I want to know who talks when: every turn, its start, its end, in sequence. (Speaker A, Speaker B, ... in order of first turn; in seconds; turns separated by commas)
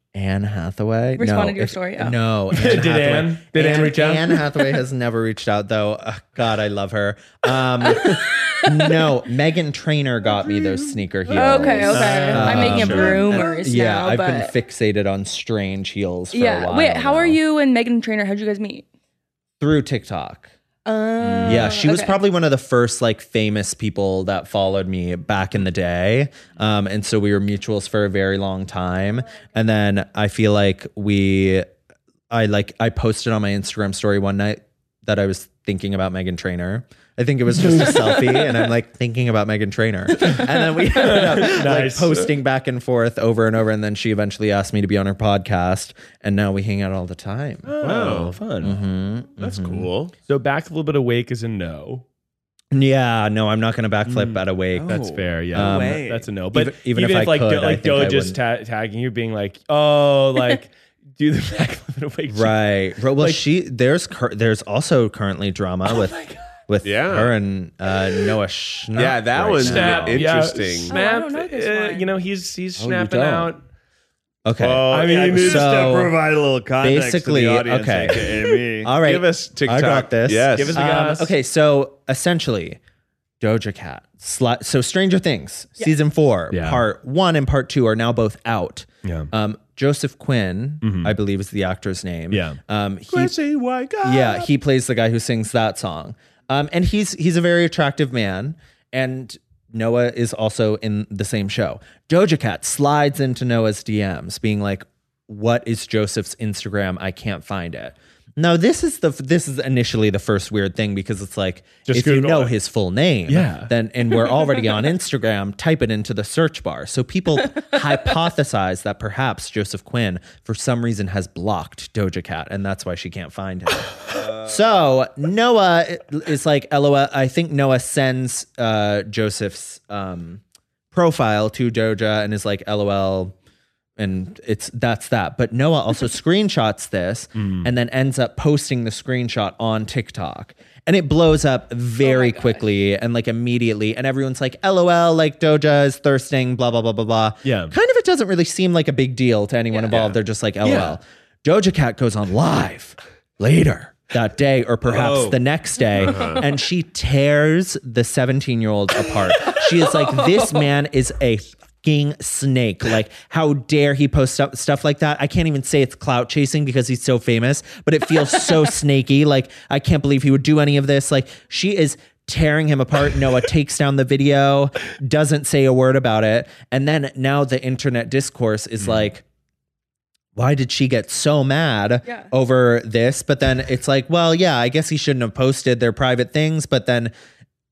Speaker A: 0.1-17.4, Speaker B: 1.2-2.2, Speaker C: 2.5-4.4, Speaker B: 7.8-9.1, Speaker B: 11.2-14.5, Speaker C: 12.0-13.0, Speaker B: 16.3-18.9, Speaker A: 19.6-20.5, Speaker B: 20.8-22.2, Speaker C: 21.2-21.7, Speaker A: 21.4-31.7, Speaker A: 32.3-47.7, Speaker C: 37.7-37.9, Speaker C: 40.9-42.3, Speaker C: 47.7-48.8, Speaker D: 47.8-48.4, Speaker A: 48.6-49.9, Speaker D: 49.4-50.1, Speaker C: 50.3-52.0, Speaker A: 52.7-58.4, Speaker C: 54.0-62.5, Speaker E: 54.7-56.4, Speaker A: 62.3-70.3, Speaker C: 63.1-63.4, Speaker C: 65.9-66.4, Speaker D: 66.8-67.3, Speaker D: 68.9-70.9, Speaker C: 69.6-73.6, Speaker B: 70.8-72.1, Speaker A: 72.8-73.5, Speaker A: 74.4-76.2, Speaker D: 74.6-75.4, Speaker C: 74.9-75.9, Speaker E: 75.0-78.9, Speaker A: 76.8-82.8, Speaker D: 79.0-80.8, Speaker C: 80.5-81.3, Speaker A: 83.4-93.3, Speaker C: 86.5-86.8, Speaker C: 89.0-89.3, Speaker C: 90.8-91.1, Speaker C: 92.3-92.6, Speaker D: 93.1-94.5, Speaker A: 94.0-133.3, Speaker C: 111.8-112.5, Speaker C: 113.3-113.7, Speaker E: 124.1-124.5, Speaker A: 134.0-179.2, Speaker C: 137.4-137.7, Speaker B: 142.0-142.7, Speaker C: 147.4-147.7, Speaker B: 149.7-150.0, Speaker C: 150.6-151.0, Speaker E: 154.9-155.4, Speaker D: 156.0-156.4, Speaker B: 159.9-160.7, Speaker A: 180.3-187.1, Speaker B: 182.0-182.3